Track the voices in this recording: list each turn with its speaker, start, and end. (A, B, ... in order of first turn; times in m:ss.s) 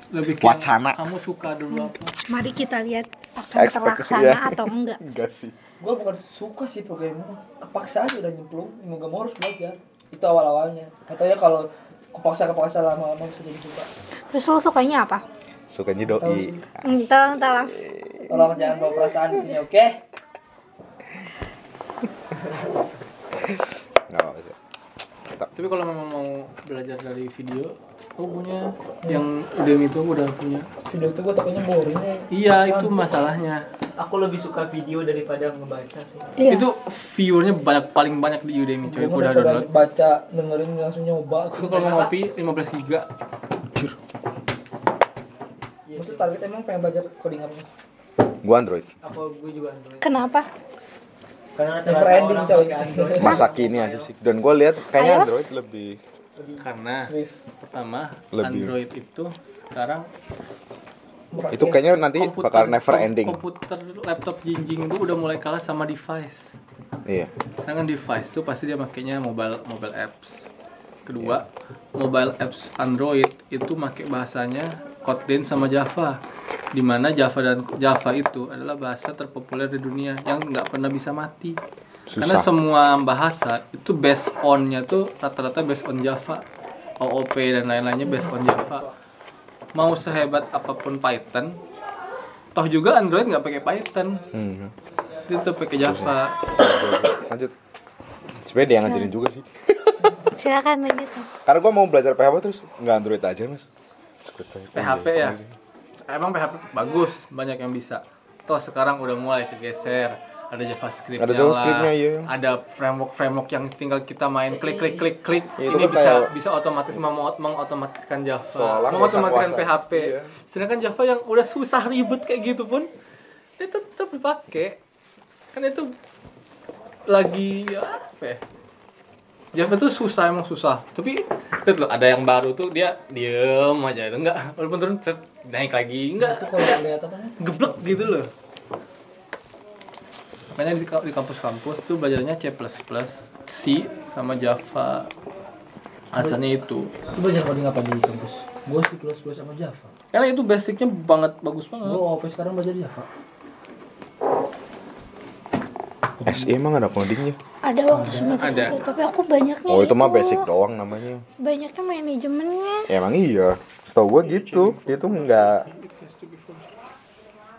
0:00.1-0:02.2 A
0:00.4-0:01.0 B
0:01.7-0:05.0 C
0:03.6-0:05.5 B
0:05.8-0:13.9 D
0:14.3-0:15.2 C
0:15.7-0:18.2 B
0:16.1-0:16.6 D
0:16.8-0:17.8 C
0:18.3-0:20.0 D
0:23.5-0:24.6 B
0:25.6-0:30.7 A
0:30.9-0:33.2 D
0:32.3-0:33.6 A
0:34.0-0:36.3 E
0:36.4-0:36.7 C
0:36.5-0:39.7 A
0:38.8-0:42.1 D
0:41.6-0:43.1 A
0:43.7-0:44.0 B
0:45.9-0:46.5 E
0:46.0-0:47.7 D
0:48.4-0:48.9 B
0:49.0-0:50.0 E
0:50.0-0:50.5 C
0:51.6-0:54.1 E
0:51.8-0:53.5 D
0:53.2-0:56.0 B
0:54.9-0:55.5 C
0:56.4-0:56.7 E
0:56.6-1:00.1 A
0:57.0-0:57.4 D
0:58.3-0:58.8 B
1:01.3-1:01.9 D
1:01.5-1:03.4 B
1:02.2-1:06.5 A
1:07.0-1:07.3 B
1:07.6-1:10.4 A
1:11.1-1:16.2 A
1:16.7-1:21.6 A
1:22.1-1:22.5 B
1:22.2-1:26.4 A
1:27.0-1:28.9 A
1:29.8-1:31.6 A
1:32.6-1:34.2 A
1:34.3-1:34.7 B
1:35.3-1:36.4 A
1:35.8-1:37.5 B
1:38.4-1:40.2 B
1:38.9-1:39.1 C
1:40.3-1:41.3 C
1:41.4-1:43.7 B
1:44.2-1:45.5 B
1:44.8-1:45.4 A
1:46.1-2:02.9 A
1:51.2-1:52.3 B
1:55.6-1:56.3 B
1:58.5-2:00.3 B
2:03.6-2:04.8 A
2:05.5-2:05.9 A
2:07.1-2:08.4 A
2:09.5-2:16.8 A
2:16.2-2:18.0 D
2:17.4-2:18.3 A
2:20.5-2:25.1 A
2:26.1-2:26.9 A
2:27.1-2:29.9 D
2:30.1-2:32.0 A
2:31.8-2:33.1 D
2:36.2-2:37.4 B
2:37.6-2:40.5 C
2:37.9-2:38.8 D
2:38.2-2:38.8 A
2:39.7-2:41.2 B
2:41.4-2:42.9 C
2:42.9-2:45.7 B
2:44.4-2:46.6 A